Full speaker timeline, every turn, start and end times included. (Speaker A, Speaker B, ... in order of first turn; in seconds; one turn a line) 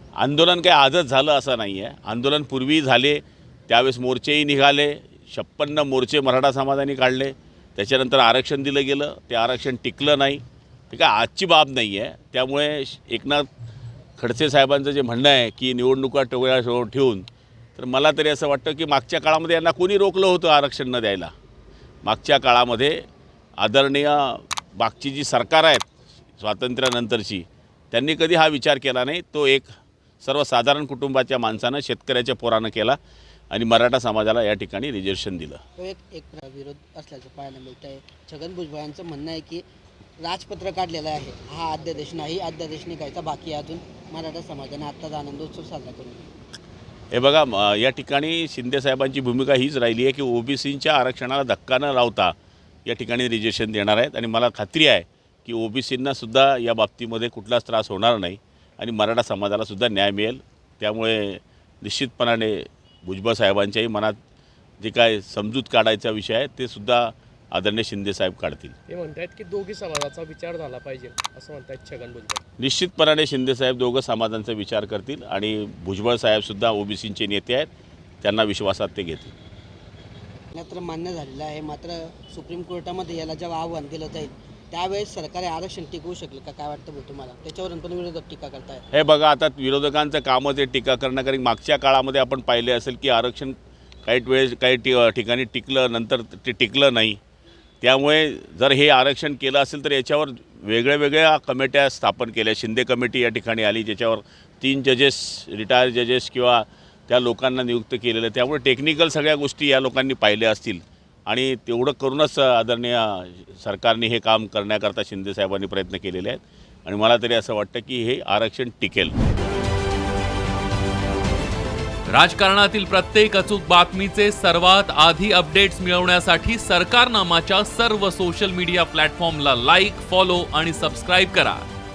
Speaker A: 0.2-13.5
Speaker A: 14.2-21.3
Speaker A: 22.0-23.0
Speaker A: 23.6-33.0
Speaker A: 33.5-35.6
Speaker B: 35.8-39.6
Speaker B: 40.2-46.3
Speaker A: 47.1-52.3
Speaker A: 52.9-64.2
Speaker A: 64.8-68.8
Speaker C: 68.9-72.4
Speaker A: 72.6-77.7
Speaker A: 78.2-79.3
Speaker B: 80.5-88.8
Speaker A: 88.9-97.2
Speaker A: 97.8-119.2
Speaker D: 122.1-131.7